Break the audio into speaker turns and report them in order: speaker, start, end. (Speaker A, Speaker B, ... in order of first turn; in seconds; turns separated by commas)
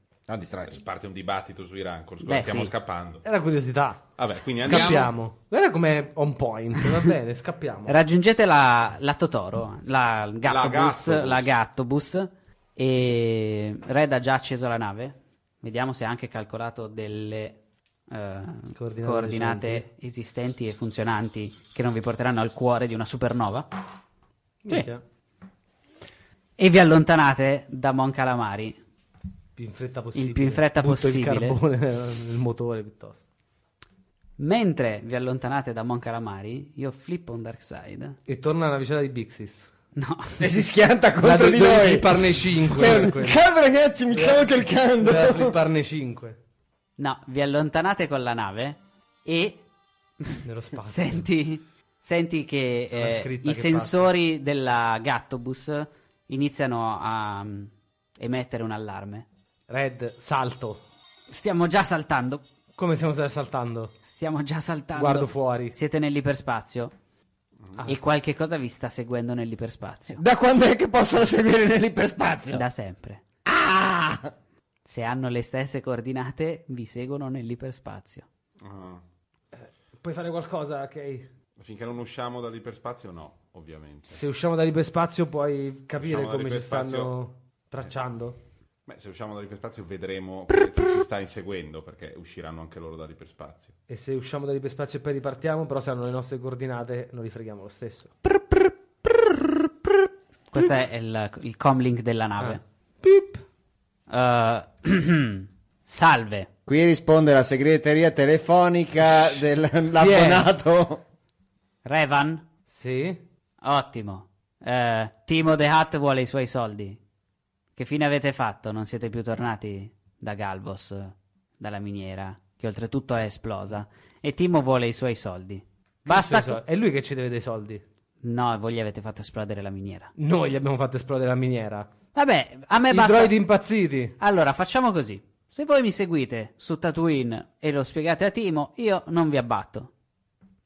Speaker A: 0.3-0.8, Speaker B: 0.7-3.2, Speaker C: 2.2-2.7, Speaker D: 3.2-4.0, Speaker B: 4.2-5.1, Speaker D: 4.6-7.9, Speaker C: 7.9-17.6, Speaker B: 10.4-11.6, Speaker C: 18.1-23.8, Speaker D: 18.7-19.8, Speaker D: 24.6-25.0, Speaker C: 26.6-28.8, Speaker D: 29.6-33.2, Speaker C: 30.1-31.6, Speaker C: 34.4-38.2, Speaker D: 38.2-39.7, Speaker C: 39.9-40.5, Speaker A: 40.4-45.5, Speaker D: 41.2-43.4, Speaker D: 44.1-46.4, Speaker C: 47.0-49.6, Speaker C: 50.2-59.2, Speaker D: 50.4-51.2, Speaker D: 52.9-54.1, Speaker D: 59.7-60.8, Speaker C: 61.3-62.4, Speaker D: 62.8-63.9, Speaker C: 64.0-66.9, Speaker D: 64.9-65.8, Speaker C: 67.8-70.2, Speaker A: 70.1-72.6, Speaker C: 72.5-73.2, Speaker A: 73.4-74.3, Speaker C: 74.8-78.2, Speaker B: 78.6-79.0, Speaker D: 79.5-81.3, Speaker B: 81.6-84.2, Speaker D: 84.2-88.4, Speaker B: 86.0-87.1, Speaker B: 88.9-93.7, Speaker D: 93.9-98.2, Speaker C: 100.5-102.6, Speaker D: 102.4-103.4, Speaker C: 104.1-106.5, Speaker A: 106.7-111.0, Speaker D: 110.0-110.4, Speaker C: 111.8-112.4, Speaker D: 112.7-113.2, Speaker C: 113.6-117.0, Speaker C: 117.8-126.6, Speaker D: 126.0-127.8, Speaker C: 128.2-130.1, Speaker D: 130.2-131.9, Speaker C: 132.1-133.4, Speaker D: 132.9-134.2, Speaker C: 134.2-139.9